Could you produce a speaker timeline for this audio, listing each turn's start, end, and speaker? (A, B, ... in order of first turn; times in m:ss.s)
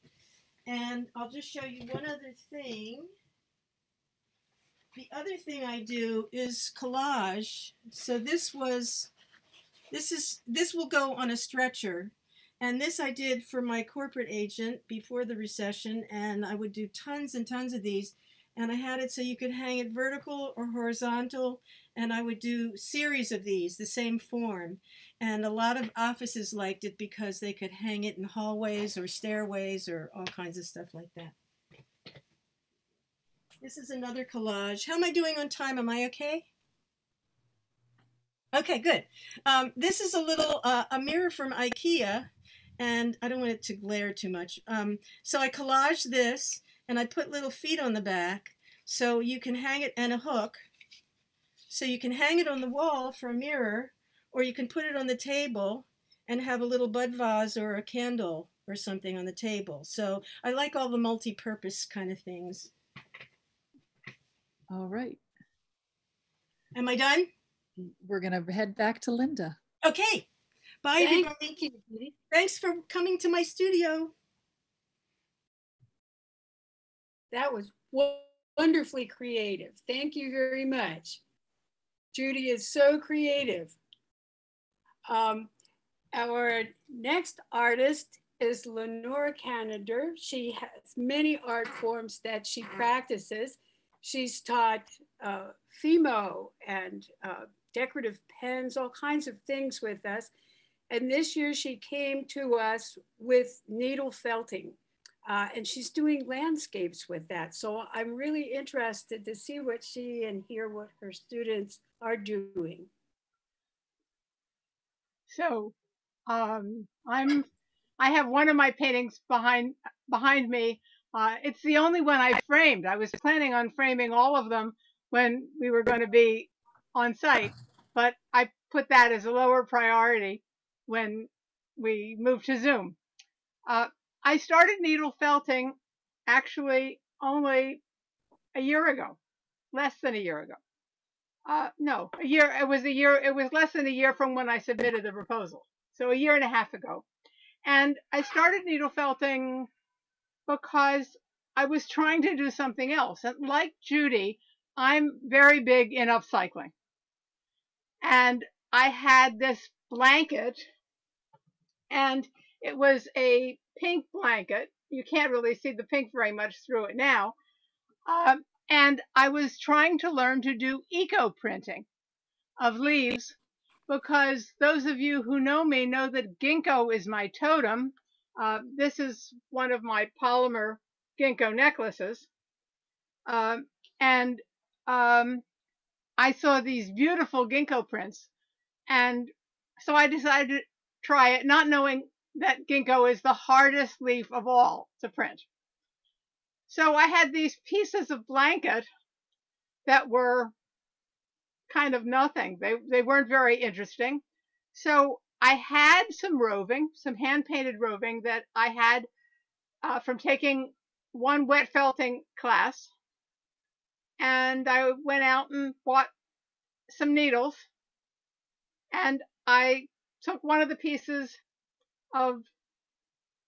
0:00.6-0:03.1 A
0:04.9-0:09.1 A
0:09.9-0:31.3 A
0:33.6-0:36.5 A
0:38.5-0:50.6 A
0:51.7-1:02.7 A
1:04.7-1:05.2 B
1:06.7-1:07.3 A
1:07.8-1:09.6 B
1:09.8-1:10.3 A
1:10.8-1:11.6 A
1:11.0-1:12.1 C
1:12.3-1:14.1 A
1:17.3-1:21.2 C
1:22.1-1:23.8 C
1:25.1-1:25.5 C
1:26.1-1:40.3 C
1:40.9-1:52.9 C
1:55.3-1:55.7 D
1:56.3-1:57.4 D
1:58.0-2:13.0 D
2:13.7-2:15.8 D
2:16.3-2:17.8 D
2:18.5-2:19.2 D
2:19.7-2:20.6 D
2:21.5-2:27.0 D
2:27.6-2:29.7 D
2:30.5-2:36.7 D
2:38.0-2:40.6 D
2:41.9-2:47.3 D
2:48.0-2:51.8 D
2:52.6-2:53.3 D
2:53.9-3:02.3 D
3:03.3-3:05.4 D
3:06.2-3:08.3 D
3:08.9-3:15.4 D
3:16.7-3:18.9 D
3:19.8-3:20.5 D
3:21.7-3:24.2 D
3:24.7-3:29.1 D
3:29.8-3:32.9 D
3:34.2-3:36.1 D
3:36.9-3:37.6 D
3:38.9-3:41.4 D
3:42.1-3:42.5 D